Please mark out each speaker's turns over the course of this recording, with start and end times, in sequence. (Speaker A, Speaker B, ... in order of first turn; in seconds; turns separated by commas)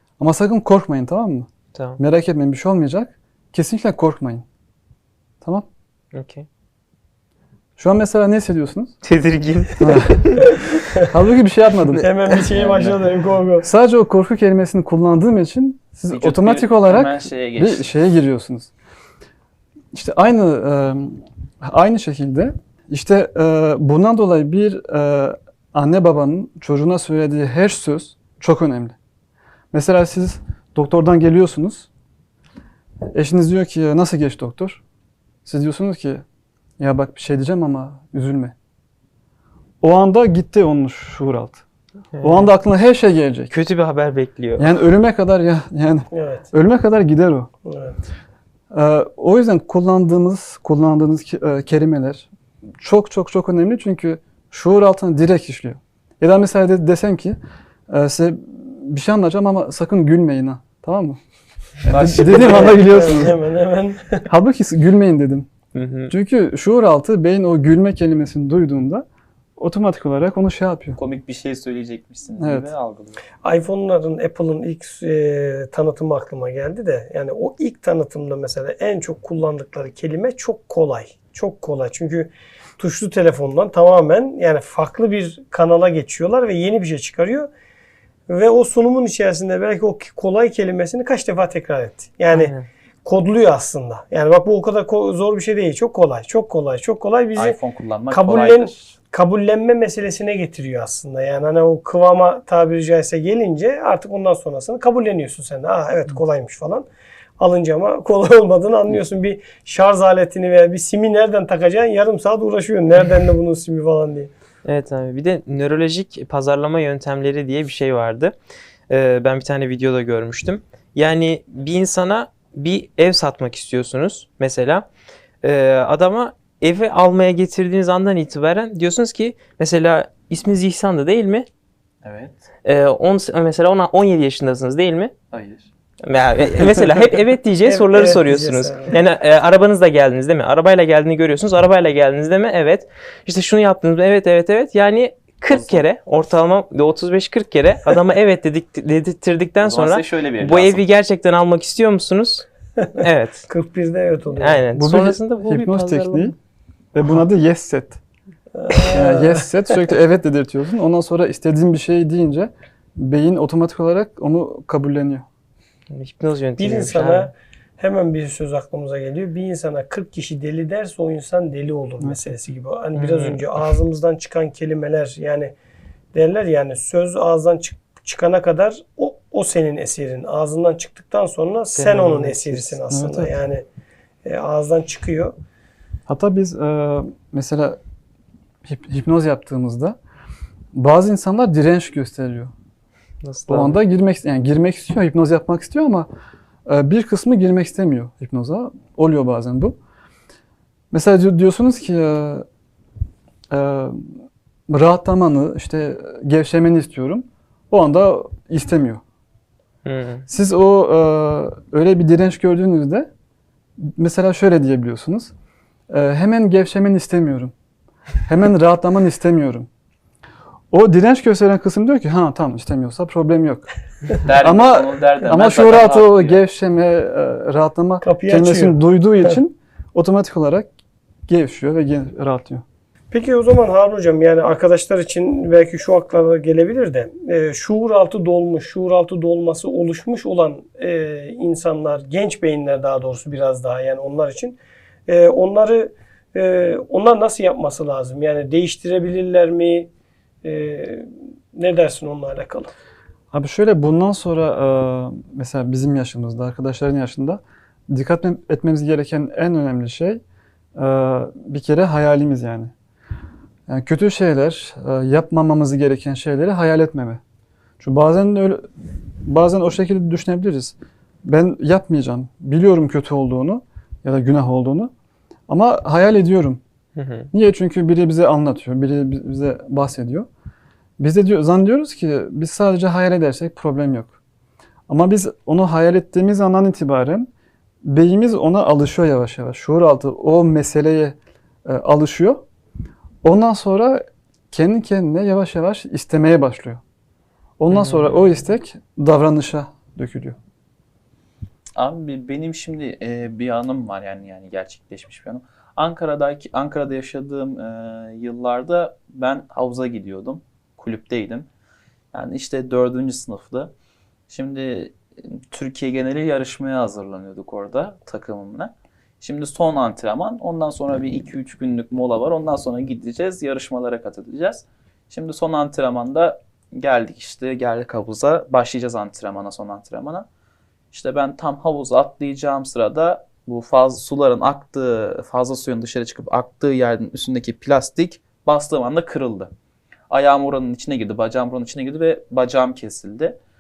Speaker A: 0.2-1.5, Speaker B: 1.7-2.0, Speaker A: 2.0-4.4, Speaker B: 6.1-6.5, Speaker A: 7.8-8.9, Speaker B: 9.0-10.7, Speaker A: 9.8-10.4, Speaker A: 11.1-12.1, Speaker C: 12.0-13.7, Speaker D: 12.5-13.0, Speaker A: 13.6-18.7, Speaker D: 16.1-17.9, Speaker A: 19.9-28.9, Speaker A: 29.7-31.9, Speaker A: 33.1-34.8, Speaker A: 35.5-36.2, Speaker A: 36.8-38.5, Speaker A: 39.8-41.6, Speaker B: 42.1-42.5, Speaker A: 42.2-43.5, Speaker B: 43.5-44.7, Speaker A: 44.6-47.5, Speaker C: 46.1-46.5, Speaker C: 47.6-48.0, Speaker A: 48.7-52.3, Speaker A: 52.8-57.4, Speaker A: 57.9-61.2, Speaker A: 61.9-63.4, Speaker D: 61.9-63.1, Speaker C: 62.3-64.3, Speaker A: 64.3-65.5, Speaker B: 65.7-66.1, Speaker A: 66.1-69.0, Speaker A: 69.6-71.0, Speaker D: 71.0-73.2, Speaker A: 72.4-72.7, Speaker C: 73.4-87.5, Speaker C: 88.3-92.5, Speaker B: 92.3-92.7, Speaker C: 93.0-97.6, Speaker D: 97.3-98.9, Speaker C: 98.1-106.9, Speaker C: 107.4-114.3, Speaker B: 114.6-118.3, Speaker B: 118.9-124.9, Speaker B: 125.4-131.5, Speaker D: 132.0-132.3, Speaker B: 132.6-135.1, Speaker D: 135.3-135.7, Speaker B: 136.0-152.4, Speaker C: 137.6-138.9, Speaker D: 145.5-145.8, Speaker D: 149.6-150.8, Speaker C: 152.8-154.6, Speaker B: 153.0-153.5, Speaker B: 154.4-156.3, Speaker A: 154.8-156.3, Speaker A: 156.9-158.0, Speaker C: 158.5-159.7, Speaker A: 158.9-165.2, Speaker B: 165.9-167.3, Speaker C: 166.6-175.5, Speaker A: 172.0-172.3, Speaker B: 172.9-173.4, Speaker C: 176.1-183.6, Speaker B: 181.7-182.8, Speaker A: 182.9-183.4, Speaker C: 184.2-185.3, Speaker A: 186.1-187.8, Speaker A: 188.6-189.9, Speaker A: 190.7-192.5, Speaker B: 193.2-193.8, Speaker A: 193.5-196.1, Speaker A: 196.7-199.8, Speaker A: 200.9-202.4, Speaker A: 203.5-204.1, Speaker A: 204.7-209.0, Speaker B: 209.8-210.2, Speaker A: 210.3-213.1, Speaker A: 213.8-215.3, Speaker A: 215.9-217.5, Speaker A: 218.2-219.7, Speaker A: 220.7-223.7, Speaker D: 224.2-226.4, Speaker A: 224.4-230.7, Speaker C: 228.0-229.4, Speaker A: 231.3-232.6, Speaker C: 233.1-249.9, Speaker C: 250.4-252.7, Speaker A: 253.3-260.2, Speaker A: 260.8-262.7, Speaker A: 263.7-267.2, Speaker A: 267.8-268.7, Speaker A: 269.2-274.9, Speaker A: 275.5-276.6, Speaker B: 276.9-277.3, Speaker A: 277.3-280.3, Speaker A: 281.0-284.1, Speaker A: 284.9-287.3, Speaker A: 287.8-292.4, Speaker A: 293.2-296.8, Speaker A: 297.6-300.4, Speaker B: 297.7-298.2, Speaker D: 301.7-311.5, Speaker D: 312.1-313.7, Speaker D: 314.3-330.2, Speaker D: 330.9-339.5, Speaker D: 340.1-343.4